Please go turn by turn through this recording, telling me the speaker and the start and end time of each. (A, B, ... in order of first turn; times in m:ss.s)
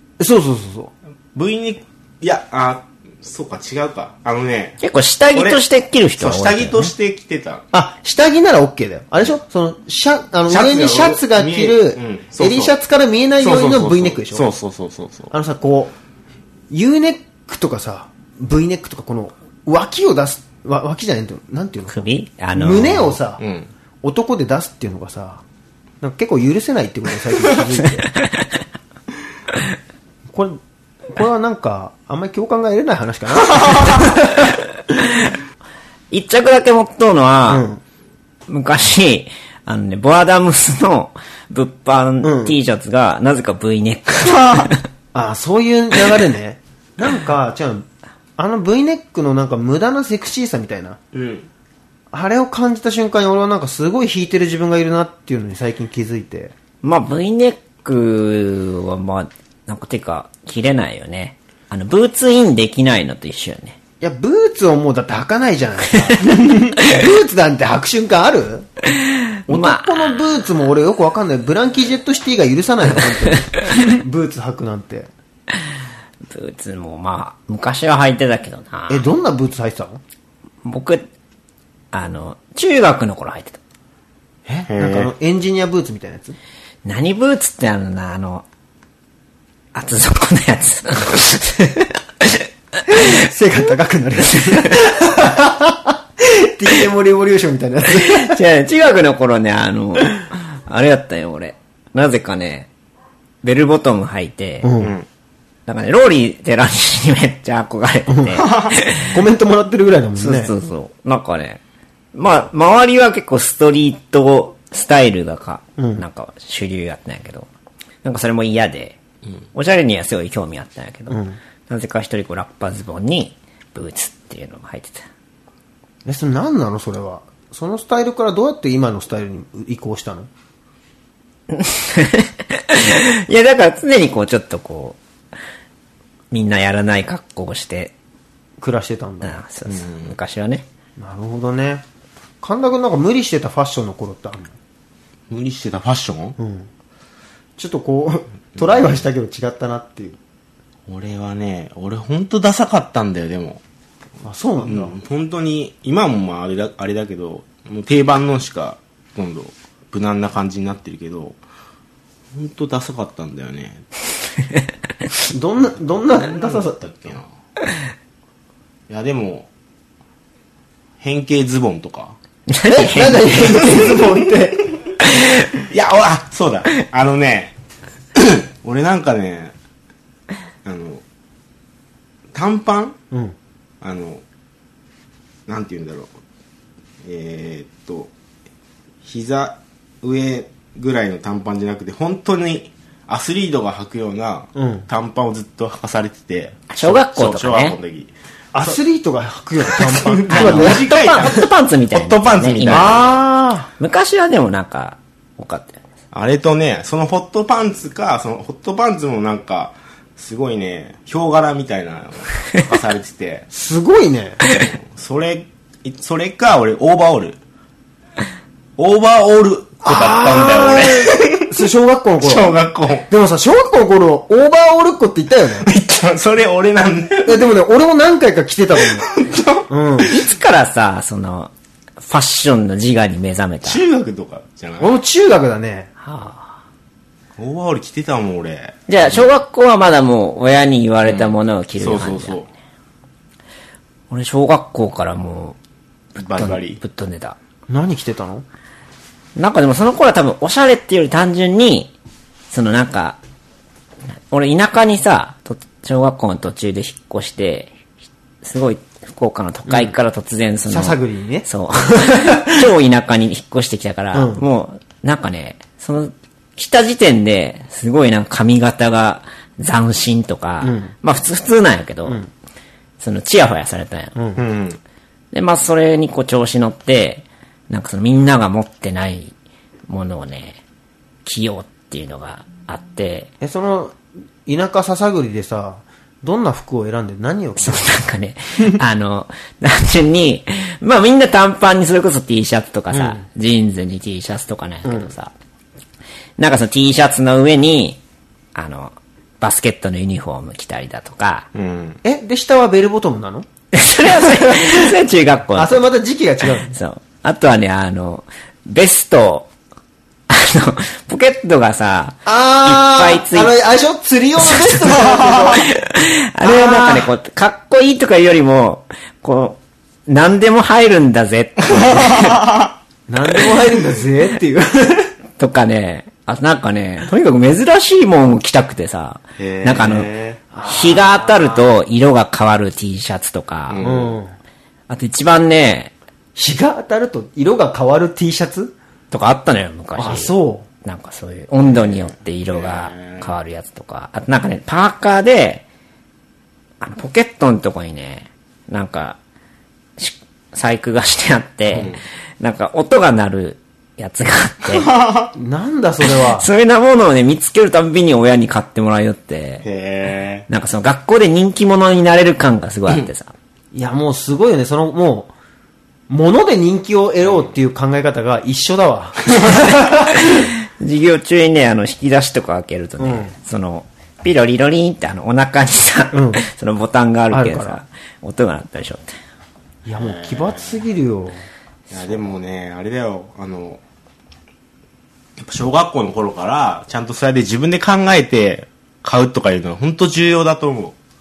0:00.2-0:00.9 A
0:01.4-0:04.8 B
0:04.8-0:06.9 C
0:05.3-0:05.6 B
0:06.2-0:07.6 B
0:07.7-0:14.5 A
0:10.5-0:12.7 B
0:13.4-0:15.3 B
0:15.3-0:15.9 A
0:16.7-0:22.0 A
0:21.9-0:23.2 C
0:22.5-0:23.4 A
0:23.4-0:23.7 B
0:24.0-0:25.4 A
0:26.0-0:28.1 A
0:30.3-0:34.5 A
0:36.1-0:37.6 C
0:37.5-0:37.8 A
0:38.5-0:44.8 C
0:42.2-0:42.6 A
0:44.3-0:44.7 B
0:45.1-0:51.0 A
0:51.1-0:51.5 B
0:52.1-0:56.5 A
0:56.8-1:03.8 C
1:04.0-1:08.7 A
1:09.5-1:10.2 C
1:09.5-1:15.1 A
1:16.3-1:19.1 C
1:18.9-1:20.0 A
1:20.6-1:21.0 C
1:21.9-1:23.6 C
1:24.5-1:26.4 A
1:24.7-1:25.1 B
1:26.8-1:28.4 C
1:29.7-1:32.4 C
1:32.9-1:38.4 A
1:38.0-1:42.7 C
1:43.4-1:44.7 C
1:44.6-1:45.0 A
1:44.8-1:45.1 B
1:45.7-1:49.1 C
1:48.1-1:48.5 A
1:48.4-1:48.7 B
1:49.0-1:50.5 A
1:50.2-1:51.6 C
1:52.2-1:57.5 C
1:55.8-1:56.0 A
1:58.0-1:59.0 C
1:59.5-2:05.1 C
2:01.1-2:01.4 A
2:06.0-2:10.3 A
2:11.5-2:15.0 C
2:16.3-2:17.9 C
2:18.6-2:19.4 A
2:19.2-2:20.7 C
2:19.7-2:20.1 B
2:21.0-2:21.8 A
2:22.4-2:24.6 A
2:25.3-2:26.4 B
2:26.4-2:26.7 A
2:27.6-2:30.2 A
2:30.9-2:33.6 B
2:34.2-2:35.0 A
2:34.6-2:41.4 B
2:42.3-2:43.8 B
2:45.3-2:46.9 A
2:46.1-2:47.3 B
2:48.9-2:49.5 B
2:51.0-2:52.2 B
2:52.5-2:53.6 C
2:52.7-2:54.7 A
2:53.6-2:54.1 B
2:55.7-2:57.5 B
2:58.2-2:59.5 B
3:00.6-3:01.0 B
3:02.3-3:03.0 B
3:03.1-3:03.4 A
3:03.8-3:04.2 B
3:05.5-3:06.1 B
3:07.0-3:08.1 B
3:09.0-3:18.8 B
3:14.6-3:14.9 A
3:16.7-3:17.8 C
3:18.5-3:21.3 A
3:19.7-3:23.2 B
3:20.3-3:23.0 C
3:22.7-3:23.7 A
3:23.8-3:25.8 C
3:26.1-3:33.5 B
3:33.5-3:34.4 A
3:34.5-3:37.4 B
3:38.8-3:41.5 B
3:39.8-3:42.6 A
3:42.2-3:43.1 B
3:43.1-3:45.7 A
3:45.6-3:47.5 B
3:47.2-3:49.1 A
3:49.0-3:49.7 B
3:49.7-3:50.2 A
3:50.0-3:53.8 C
3:53.6-3:55.0 B
3:54.8-3:55.9 A
3:56.0-3:56.6 C
3:57.4-3:59.3 B
3:58.9-4:02.4 C
4:01.0-4:02.5 B
4:04.1-4:05.6 C
4:06.2-4:07.4 C
4:06.2-4:06.8 B
4:07.7-4:08.4 A
4:09.4-4:11.9 C
4:12.5-4:13.2 C
4:14.3-4:17.7 C
4:18.4-4:32.2 C
4:20.7-4:22.6 A
4:24.1-4:24.4 A
4:30.6-4:30.9 A
4:32.0-4:32.3 A
4:33.0-4:34.2 C
4:34.2-4:34.4 A
4:34.4-4:34.8 B
4:35.3-4:39.3 C
4:39.9-4:40.6 C
4:41.2-4:43.3 C
4:43.4-4:48.0 A
4:47.6-4:55.3 C
4:52.9-4:53.2 A
4:54.8-4:55.1 A
4:56.4-4:58.0 C
4:58.6-5:01.5 C
5:01.5-5:02.0 B
5:02.0-5:03.5 A
5:03.7-5:05.9 C
5:04.2-5:04.8 A
5:05.6-5:06.8 A
5:06.7-5:09.5 C
5:10.3-5:13.6 C
5:12.3-5:15.7 A
5:15.1-5:15.5 B
5:15.7-5:22.4 C
5:16.4-5:17.1 A
5:22.0-5:22.7 B
5:23.1-5:25.1 A
5:25.4-5:33.8 C
5:29.4-5:30.4 B
5:30.5-5:31.6 A
5:33.7-5:34.2 B
5:33.8-5:34.4 A
5:34.9-5:35.9 C
5:36.4-5:38.7 A
5:39.1-5:45.6 C
5:40.0-5:40.7 A
5:41.6-5:43.3 B
5:46.8-5:49.2 C
5:50.0-5:54.9 C
5:51.7-5:52.0 B
5:54.7-5:55.3 B
5:55.4-5:56.5 A
5:56.3-5:59.6 C
5:59.6-6:00.5 B
6:00.5-6:03.3 C
6:03.7-6:05.3 A
6:06.1-6:10.3 A
6:07.2-6:07.5 B
6:10.3-6:19.1 C
6:13.0-6:13.3 A
6:16.1-6:16.4 A
6:17.3-6:17.8 A
6:19.8-6:21.5 A
6:20.0-6:20.8 B
6:21.9-6:23.8 B
6:25.4-6:31.0 B